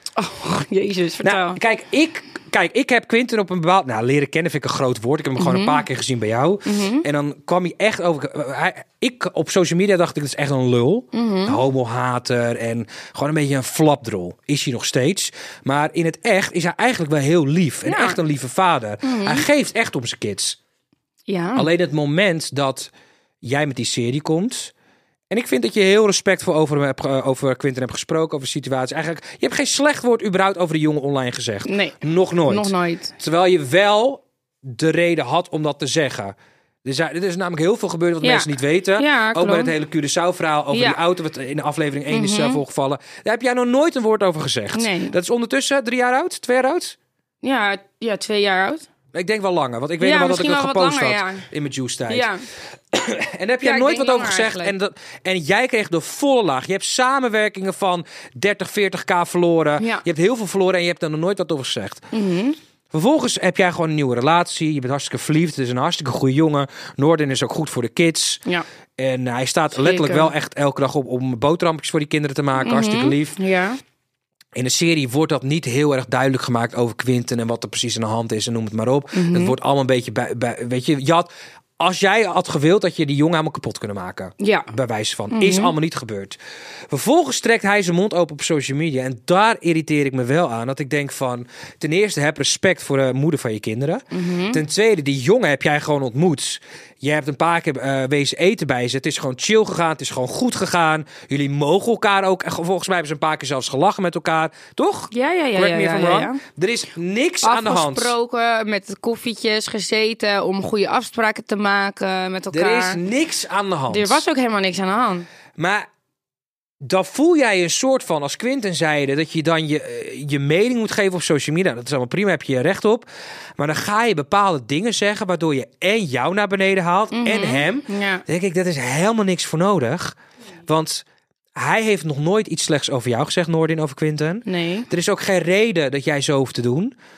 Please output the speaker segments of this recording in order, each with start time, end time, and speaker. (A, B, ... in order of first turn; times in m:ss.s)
0:00.2-0:01.6 A
0:01.2-0:20.6 B
0:05.4-0:05.8 A
0:06.6-0:07.0 A
0:11.1-0:11.6 A
0:17.8-0:18.2 A
0:19.0-0:19.4 A
0:21.3-0:21.7 A
0:21.5-0:22.9 B
0:23.4-0:24.7 B
0:25.3-0:47.0 B
0:31.6-0:33.1 A
0:38.2-0:39.7 A
0:40.7-0:41.0 A
0:42.1-0:42.6 A
0:44.7-0:45.2 A
0:47.4-0:48.9 A
0:49.1-0:52.3 B
0:50.0-0:51.4 A
0:52.1-0:52.4 A
0:52.9-1:02.1 B
0:53.6-0:54.7 A
0:59.8-1:00.0 A
1:02.1-1:02.6 A
1:02.9-1:08.4 B
1:09.0-1:13.4 B
1:09.7-1:10.3 A
1:12.6-1:13.8 A
1:14.5-1:26.4 B
1:19.1-1:19.5 A
1:24.4-1:24.7 A
1:25.3-1:25.7 A
1:26.9-1:48.1 B
1:34.1-1:34.6 A
1:45.1-1:46.4 A
1:47.4-1:53.0 A
1:52.5-1:54.2 B
1:53.9-1:55.3 A
1:55.6-1:55.8 B
1:56.8-2:03.0 B
2:03.6-2:10.1 B
2:07.1-2:08.2 A
2:10.6-2:11.0 B
2:11.5-2:16.9 B
2:14.4-2:14.9 A